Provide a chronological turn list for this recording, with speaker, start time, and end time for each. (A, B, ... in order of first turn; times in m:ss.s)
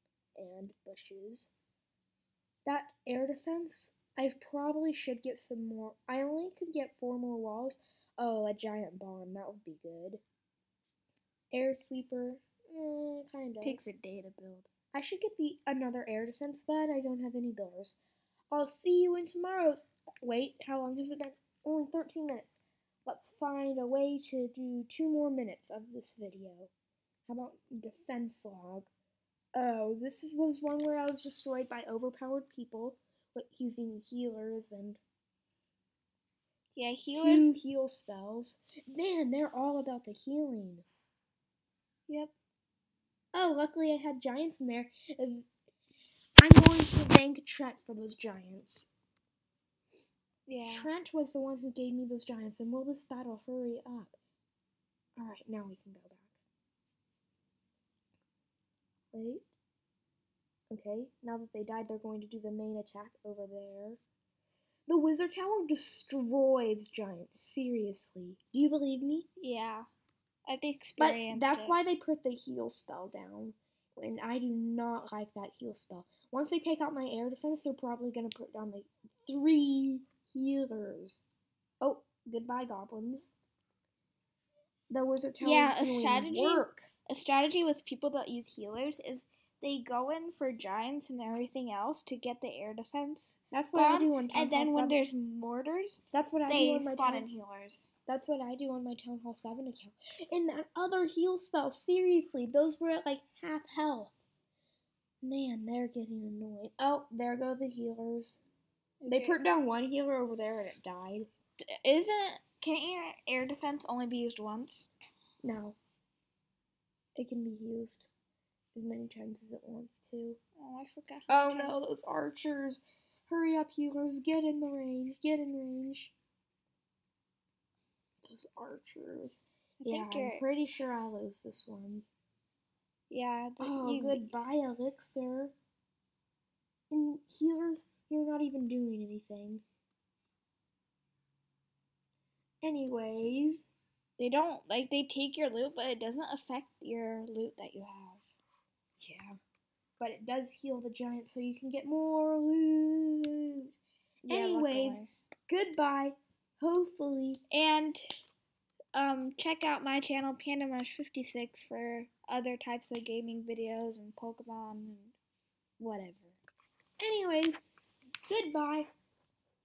0:00.4-0:01.5 A
0:02.7-0:10.2 A
0:11.5-0:13.8 A
0:13.6-0:14.7 B
0:14.9-0:18.0 A
0:18.5-0:26.7 A
0:27.3-0:28.9 A
0:29.6-0:35.0 A
0:36.8-0:37.5 B
0:37.0-0:40.9 A
0:42.1-0:42.3 B
0:43.3-0:45.5 A
0:46.4-0:48.9 A
0:50.5-0:50.9 B
0:50.6-0:54.2 A
0:55.2-0:56.3 A
0:59.1-0:59.5 A
1:00.7-1:04.0 A
1:04.9-1:09.3 A
1:09.4-1:09.9 B
1:10.5-1:11.8 B
1:11.0-1:21.2 A
1:21.8-1:23.3 A
1:24.9-1:26.9 A
1:25.4-1:37.9 B
1:33.5-1:35.0 A
1:36.1-1:37.3 A
1:38.1-1:44.1 A
1:45.2-1:48.4 A
1:49.0-1:49.4 B
1:49.1-1:51.3 A
1:51.7-1:54.9 B
1:55.4-1:55.8 A
1:57.2-1:58.1 A
1:58.8-2:00.4 A
2:00.6-2:01.8 B
2:01.3-2:06.2 A
2:08.2-2:12.1 A
2:09.8-2:10.4 B
2:13.1-2:14.3 B
2:13.6-2:15.5 A
2:16.9-2:19.6 A
2:22.6-2:23.7 A
2:24.2-2:28.2 B
2:29.0-2:29.4 A
2:30.0-2:33.8 A
2:34.3-2:35.1 B
2:34.3-2:37.4 A
2:37.5-2:38.2 B
2:38.9-2:45.2 B
2:45.8-2:46.4 B
2:47.0-2:47.7 A
2:48.3-2:48.9 A